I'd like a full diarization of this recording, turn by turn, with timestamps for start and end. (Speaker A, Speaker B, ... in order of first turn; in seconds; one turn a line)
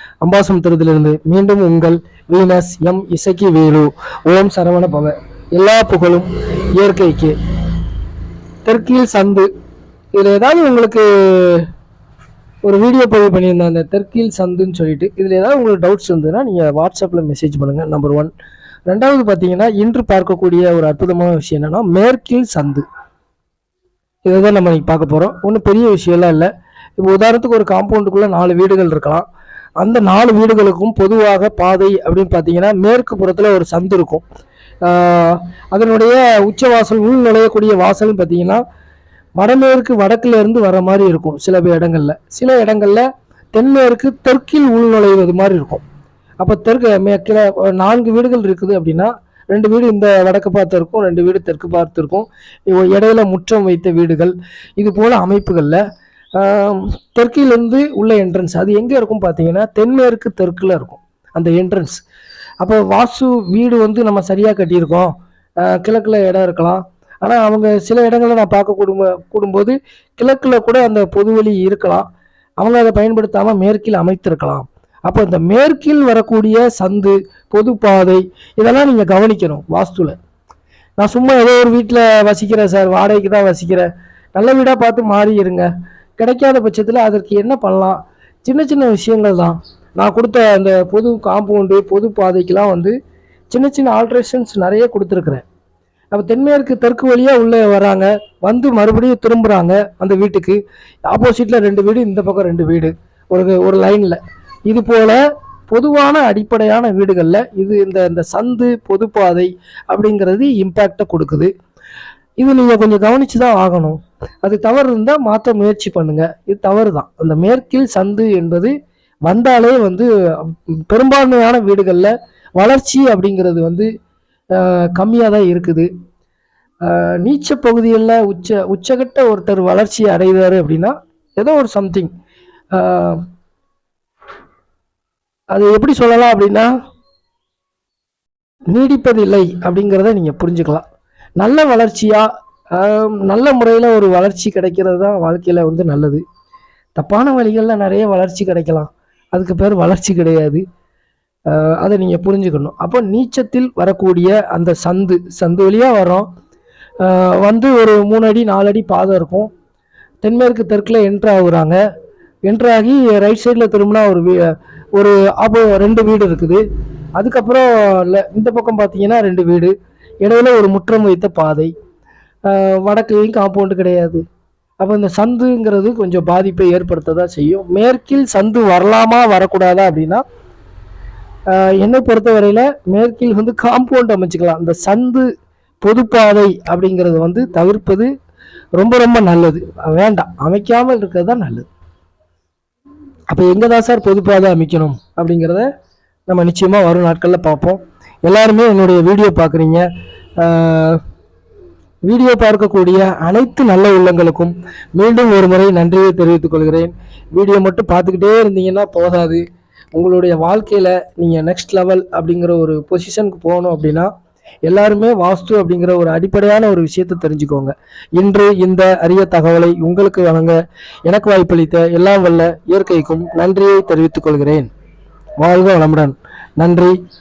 Speaker A: 0.2-7.3
Speaker A: 8.6-9.5
Speaker A: 10.2-11.7
Speaker A: 12.6-18.3
Speaker A: 18.9-22.8
Speaker A: 24.2-29.2
Speaker A: 29.8-34.2
Speaker A: 34.8-38.6
Speaker A: 39.4-45.8
Speaker A: 46.4-55.8
Speaker A: 56.4-62.0
Speaker A: 62.6-72.0
Speaker A: 72.6-80.2
Speaker A: 81.0-92.9
Speaker A: 93.5-95.4
Speaker A: 96.1-111.5
Speaker A: 112.4-118.7
Speaker A: 119.3-123.9
Speaker A: 124.5-125.9
Speaker A: 126.8-132.1
Speaker A: 132.7-133.2
Speaker A: 135.5-136.7
Speaker A: 138.7-140.8
Speaker A: 141.4-146.2
Speaker A: 147.0-150.6
Speaker A: 151.5-156.3
Speaker A: 157.0-159.5
Speaker A: 160.2-161.8
Speaker A: 162.5-166.6
Speaker A: 167.2-169.7
Speaker A: 170.2-171.7
Speaker A: 172.5-174.2
Speaker A: 174.8-180.2
Speaker A: 181.5-185.3
Speaker A: 185.8-188.1
Speaker A: 188.8-191.7
Speaker A: 193.3-195.7
Speaker A: 196.3-199.8
Speaker A: 200.4-201.0
Speaker A: 202.1-209.4
Speaker A: 209.9-214.1
Speaker A: 214.7-220.5
Speaker A: 221.1-224.7
Speaker A: 225.4-226.9